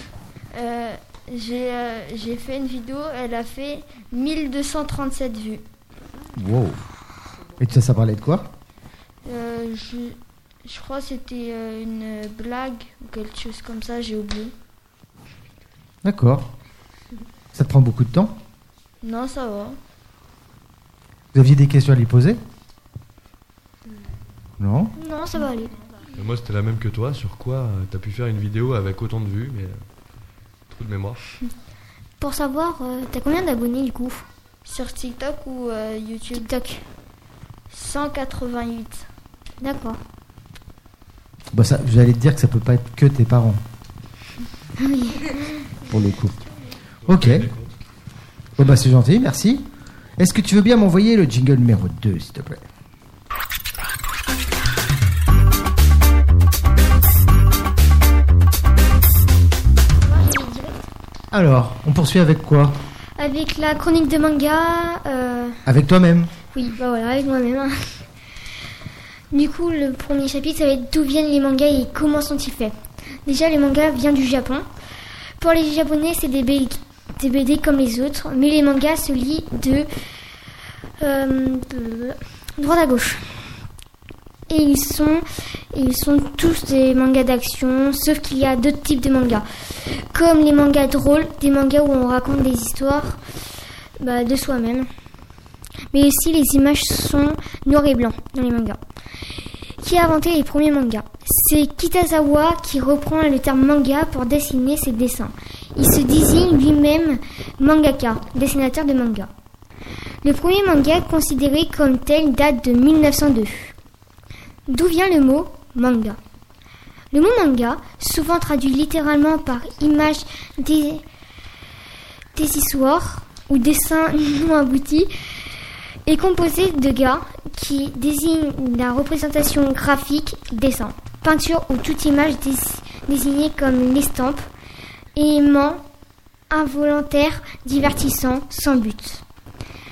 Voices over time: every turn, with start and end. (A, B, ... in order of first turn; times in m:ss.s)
0:00.5-0:05.6 A
0:06.3-0:06.8 B
0:07.6-0:08.5 B
0:09.2-0:14.5 A
0:16.0-0:16.5 B
0:17.5-0:18.4 B
0:19.0-0:19.8 A
0:21.3-0:22.4 B
0:24.6-0:24.9 B
0:25.0-0:25.7 C
0:26.1-0:29.8 D
0:30.7-0:31.2 D
0:32.2-0:34.2 C
0:34.6-0:36.5 A
0:36.3-0:36.8 C
0:37.7-0:39.0 A
0:39.6-0:40.0 C
0:41.5-0:43.6 B
0:44.8-0:45.4 C
0:45.9-0:46.3 B
0:47.0-0:47.7 D
0:47.1-0:47.5 B
0:48.6-0:49.7 B
0:50.2-0:52.7 B
1:00.0-1:00.9 C
1:01.3-1:02.8 B
1:03.2-1:05.6 C
1:05.6-1:06.3 B
1:06.5-1:08.0 C
1:09.3-1:12.7 C
1:13.2-1:14.6 C
1:15.4-1:19.9 C
1:21.0-1:23.2 C
1:24.5-1:33.2 C
1:34.0-1:34.9 C
1:35.9-1:38.8 C
1:39.8-1:49.3 C
1:50.2-1:53.7 C
1:54.7-1:56.2 C
1:57.1-2:01.0 C
2:02.3-2:05.1 C
2:06.1-2:14.4 C
2:15.2-2:15.8 C
2:16.5-2:19.2 C